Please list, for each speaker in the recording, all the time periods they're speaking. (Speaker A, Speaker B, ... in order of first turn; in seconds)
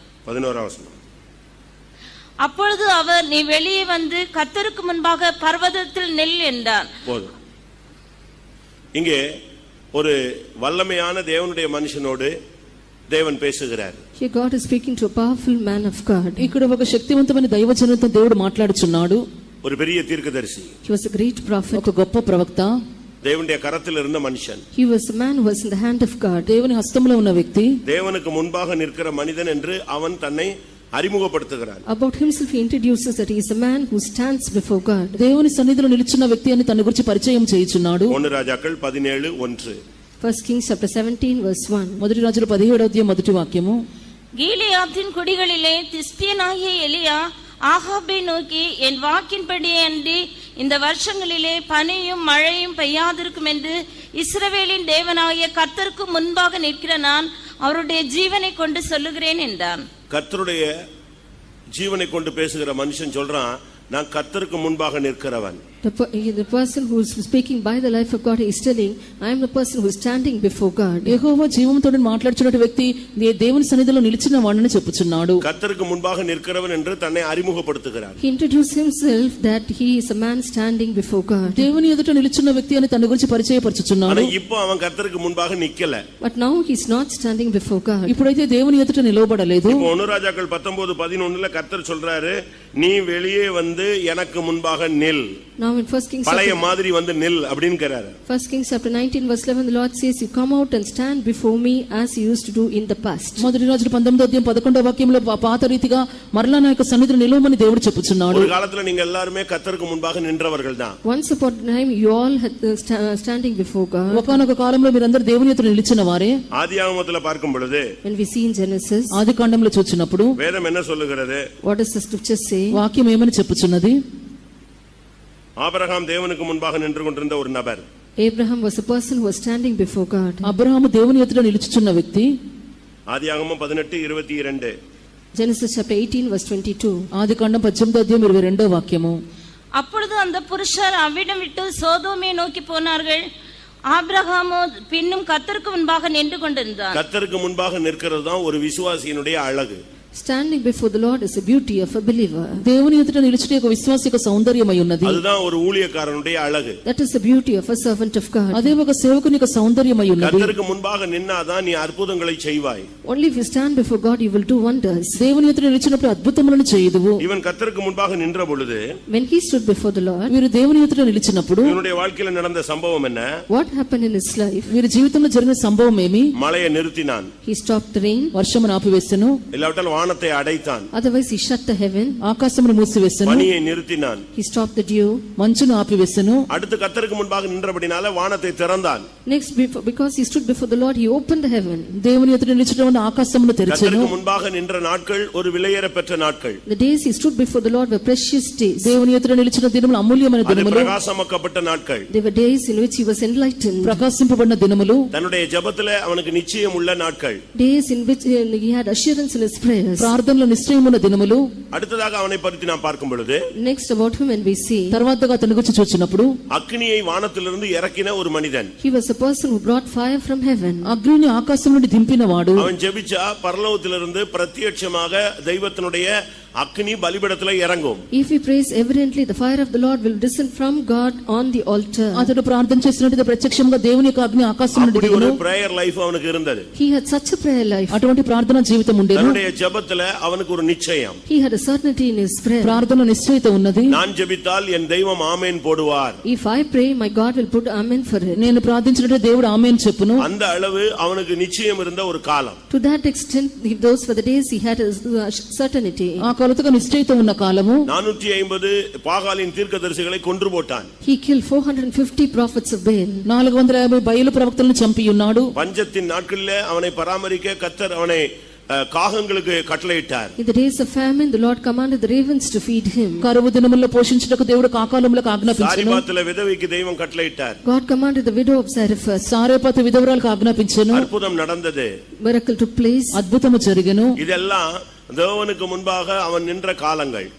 Speaker A: 0.2-0.9, 7.1-7.3, 8.9-9.2, 9.9-12.3, 13.1-14.0, 19.6-20.7, 23.2-24.6, 27.9-31.8, 38.1-39.8, 60.1-60.7, 61.8-65.6, 75.4-78.2, 84.0-86.0, 89.7-95.2, 96.2-98.1, 108.3-111.0, 116.5-117.8, 120.4-121.4, 125.6-127.8, 133.1-134.7, 146.9-149.8, 155.0-156.8, 160.2-162.9, 167.2-168.8, 171.6-173.3, 176.3-177.3, 179.5-180.9, 183.2-184.2, 186.5-189.1, 193.7-196.6, 200.4-202.1, 205.1-207.4, 211.7-213.4, 216.5-218.7, 222.6-228.0, 234.7-236.7, 239.1-241.2, 243.9-246.2, 250.2-252.6, 257.9-260.9, 265.5-270.3, 275.5-277.6, 280.9-281.9, 284.2-287.3
Speaker B: 2.4-6.8, 44.4-59.8, 139.8-143.2, 143.9-147.0
Speaker C: 14.2-16.5, 20.8-21.9, 24.7-26.5, 31.9-35.2, 40.2-42.0, 65.8-71.2, 78.2-81.6, 86.2-88.1, 95.6-96.6, 98.3-103.4, 111.0-114.3, 118.0-119.2, 121.6-122.8, 128.2-130.5, 135.3-137.0, 150.1-152.6, 156.8-158.7, 163.0-165.2, 169.1-170.3, 173.5-174.7, 177.4-178.3, 180.9-182.2, 184.3-185.2, 189.2-191.9, 196.7-198.9, 202.1-204.0, 207.6-210.1, 213.5-215.0, 218.8-220.9, 228.1-232.3, 236.8-238.0, 241.3-242.8, 246.2-248.4, 252.7-256.2, 261.0-263.3, 270.4-273.2, 277.6-279.3, 282.2-283.2
Speaker D: 16.4-19.2, 21.7-22.8, 26.4-27.7, 35.2-38.1, 42.0-43.8, 71.0-75.4, 81.5-84.3, 88.1-89.9, 103.4-108.5, 114.1-116.3, 119.1-120.3, 122.7-124.0, 130.4-132.3, 137.1-139.2, 152.6-155.2, 158.5-160.5, 165.2-167.2, 170.3-171.8, 174.7-176.3, 178.3-179.4, 182.2-183.5, 185.4-186.4, 192.0-194.1, 198.8-200.9, 203.8-205.1, 210.0-211.5, 214.9-216.3, 220.8-222.7, 232.1-235.4, 237.9-239.4, 242.6-243.9, 248.3-250.2, 256.2-257.8, 263.2-265.5, 273.2-276.0, 279.2-281.1, 283.1-284.1